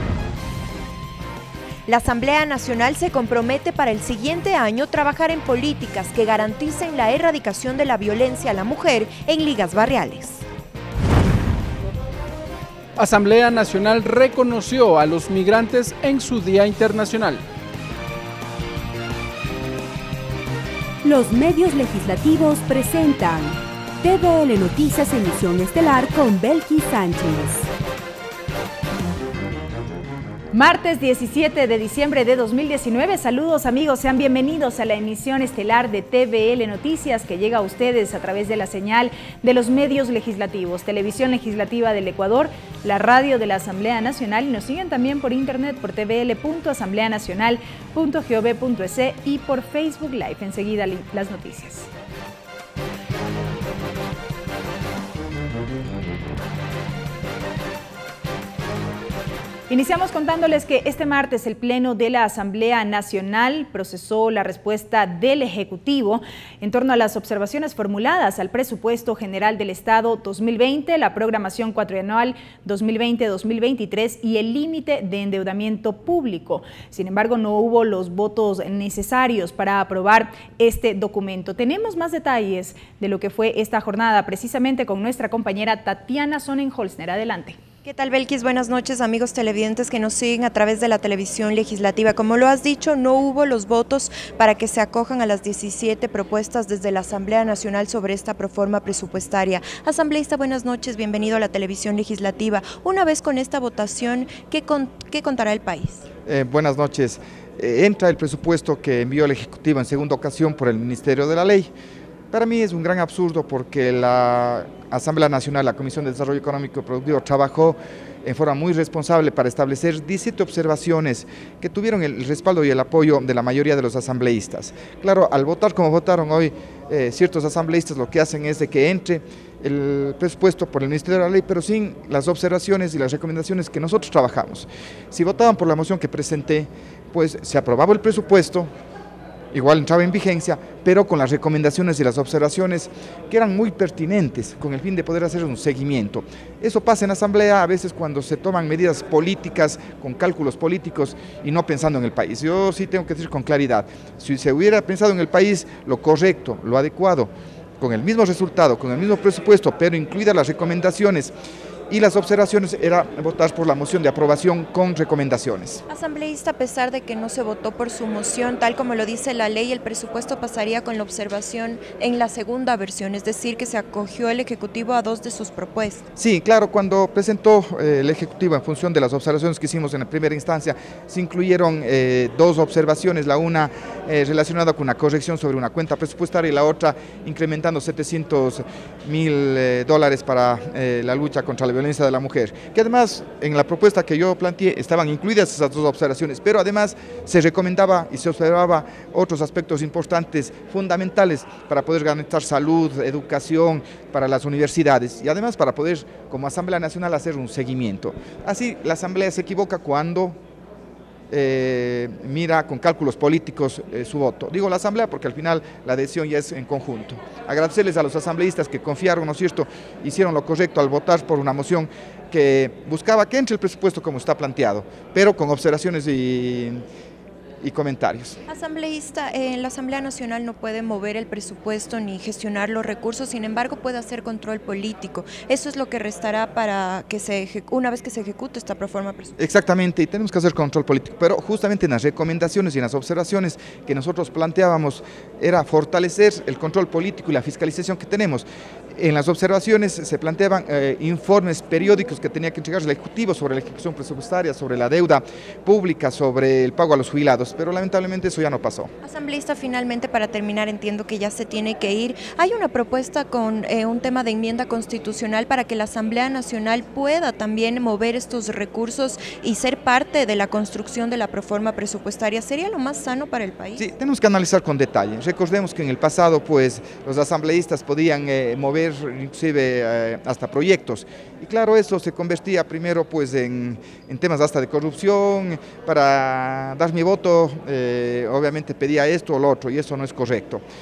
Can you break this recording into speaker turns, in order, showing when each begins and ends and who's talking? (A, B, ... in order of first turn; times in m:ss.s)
0:01.9-0:10.4 A
0:13.0-0:17.4 B
0:21.0-0:27.7 C
0:30.5-0:51.9 D
0:59.7-1:27.6 D
1:27.8-1:46.1 A
1:46.3-1:51.7 E
1:52.3-2:18.7 E
2:19.5-2:41.3 E
2:41.9-2:45.8 E
2:45.9-2:56.1 A
2:56.2-3:30.4 E
3:31.3-3:46.8 E
3:47.6-3:48.4 E
3:48.5-3:59.3 A
3:59.4-4:18.9 E
4:19.0-4:33.9 A
4:33.8-4:50.6 E